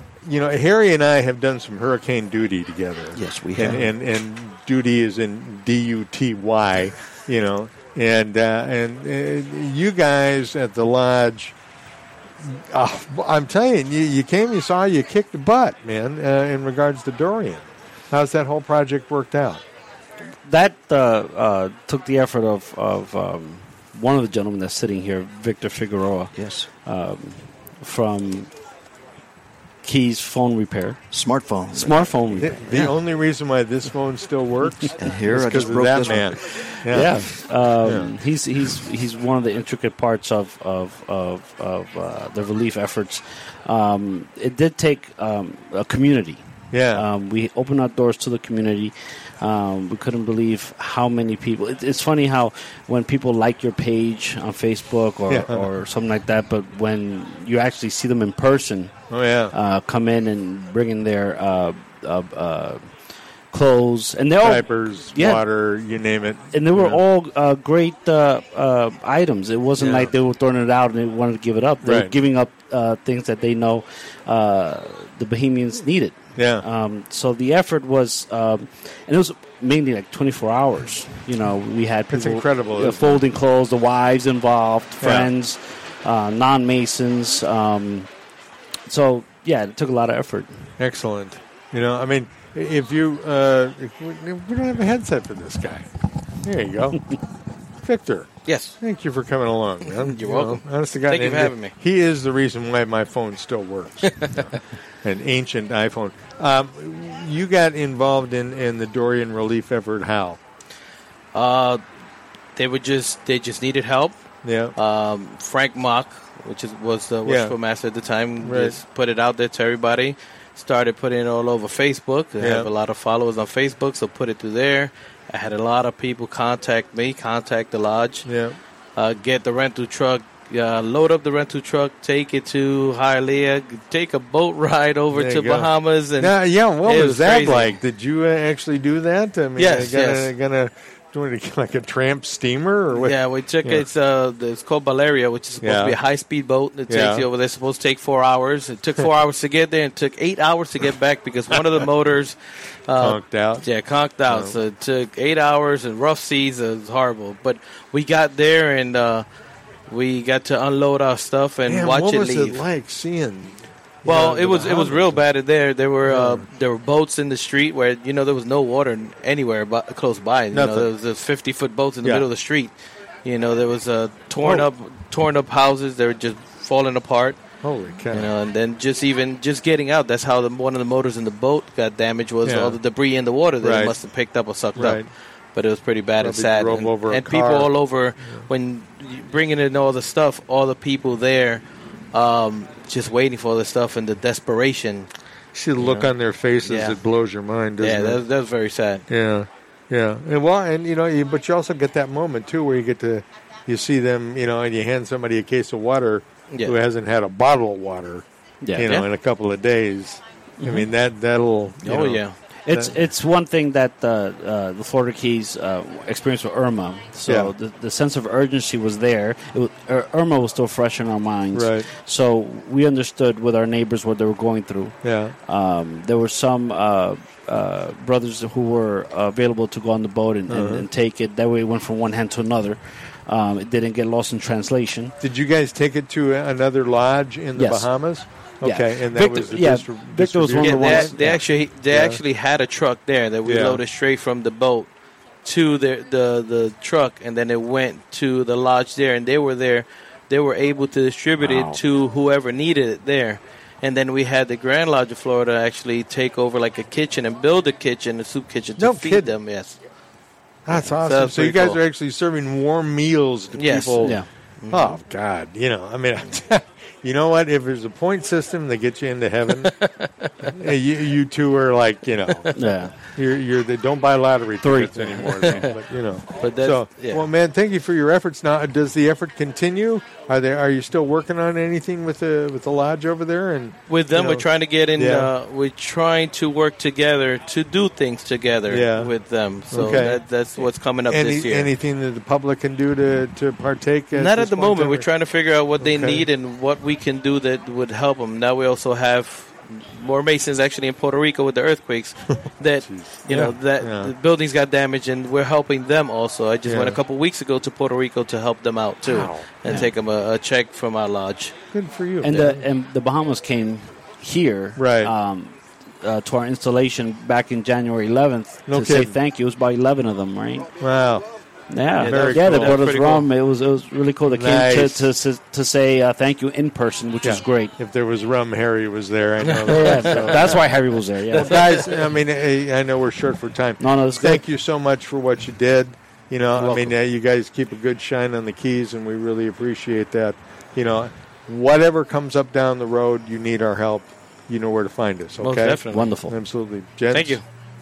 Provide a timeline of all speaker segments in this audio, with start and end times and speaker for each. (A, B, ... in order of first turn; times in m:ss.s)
0:00.2-0:11.5 A
0:03.1-0:03.9 B
0:12.4-0:19.6 A
0:20.4-0:26.3 C
0:26.4-0:26.7 B
0:26.8-0:28.5 C
0:29.8-0:31.0 C
0:31.1-0:32.9 B
0:31.7-0:32.6 C
0:32.4-0:37.3 A
0:35.0-0:37.1 B
0:36.9-0:58.9 C
0:37.8-0:38.1 A
0:46.7-0:47.0 A
0:55.3-0:55.7 A
0:59.1-0:59.5 A
0:59.5-1:02.9 C
1:03.5-1:05.4 C
1:04.4-1:07.0 A
1:06.5-1:28.1 C
1:11.8-1:12.2 A
1:16.4-1:16.6 A
1:22.1-1:23.2 A
1:25.0-1:25.3 A
1:28.9-1:30.6 C
1:30.8-1:35.9 A
1:36.4-1:37.1 A
1:37.8-1:50.4 A
1:38.4-1:38.8 D
1:39.9-1:41.7 D
1:51.3-1:51.8 D
1:52.6-1:54.2 D
1:54.4-1:54.7 A
1:54.8-2:08.3 D
1:57.2-1:57.5 A
1:58.4-1:58.8 A
2:02.4-2:02.7 A
2:08.2-2:08.6 A
2:09.0-2:17.7 D
2:15.1-2:23.8 A
2:19.6-2:20.3 D
2:22.9-2:32.4 D
2:25.6-2:26.0 A
2:26.9-2:27.3 A
2:32.9-2:39.2 D
2:33.0-2:33.6 A
2:34.3-2:34.5 A
2:39.9-2:42.6 D
2:41.6-2:45.2 A
2:44.0-2:52.7 D
2:46.0-2:46.4 A
2:50.5-2:50.9 A
2:53.2-2:57.4 D
2:54.4-2:54.7 A
2:57.6-2:58.3 A
2:58.1-3:15.1 D
3:02.4-3:02.8 A
3:03.6-3:04.0 A
3:04.7-3:05.1 A
3:06.2-3:07.7 A
3:15.5-3:18.2 A
3:16.6-3:17.0 D
3:17.8-3:19.0 D
3:19.1-3:33.0 A
3:26.5-3:26.8 D
3:28.6-3:29.0 C
3:30.6-3:30.9 C
3:31.9-3:32.4 D
3:32.6-3:55.1 C
3:37.3-3:37.5 A
3:41.5-3:41.9 A
3:45.0-3:45.3 A
3:50.5-3:50.9 A
3:55.2-4:01.4 A
3:57.5-3:57.9 C
3:58.6-4:01.4 C
4:00.6-4:04.9 D
4:01.9-4:02.2 A
4:03.4-4:03.8 A
4:05.4-4:19.8 D
4:18.8-4:19.3 A
4:20.6-4:29.7 A
4:20.8-4:21.8 D
4:23.5-4:24.1 D
4:24.0-4:24.3 C
4:24.6-4:24.9 D
4:29.6-4:30.3 D
4:30.4-4:45.3 A
4:32.5-4:33.0 C
4:34.6-4:35.7 C
4:36.4-4:37.3 D
4:43.9-4:51.7 D
4:48.7-4:49.1 A
4:49.7-4:55.1 A
4:54.1-5:11.5 D
4:55.8-4:56.2 A
5:02.8-5:04.1 A
5:06.6-5:07.0 A
5:09.0-5:09.9 A
5:11.7-5:12.6 A
5:12.2-5:20.7 C
5:14.8-5:15.1 A
5:18.7-5:19.1 A
5:20.8-5:21.2 A
5:21.7-5:27.7 C
5:22.0-5:22.8 A
5:22.0-5:23.2 D
5:24.3-5:25.1 A
5:27.2-5:30.6 A
5:29.5-5:30.1 D
5:29.7-5:31.9 C
5:31.3-5:47.4 A
5:33.8-5:34.4 C
5:36.6-5:36.9 C
5:45.4-5:46.1 D
5:45.9-5:46.3 C
5:47.1-5:47.4 D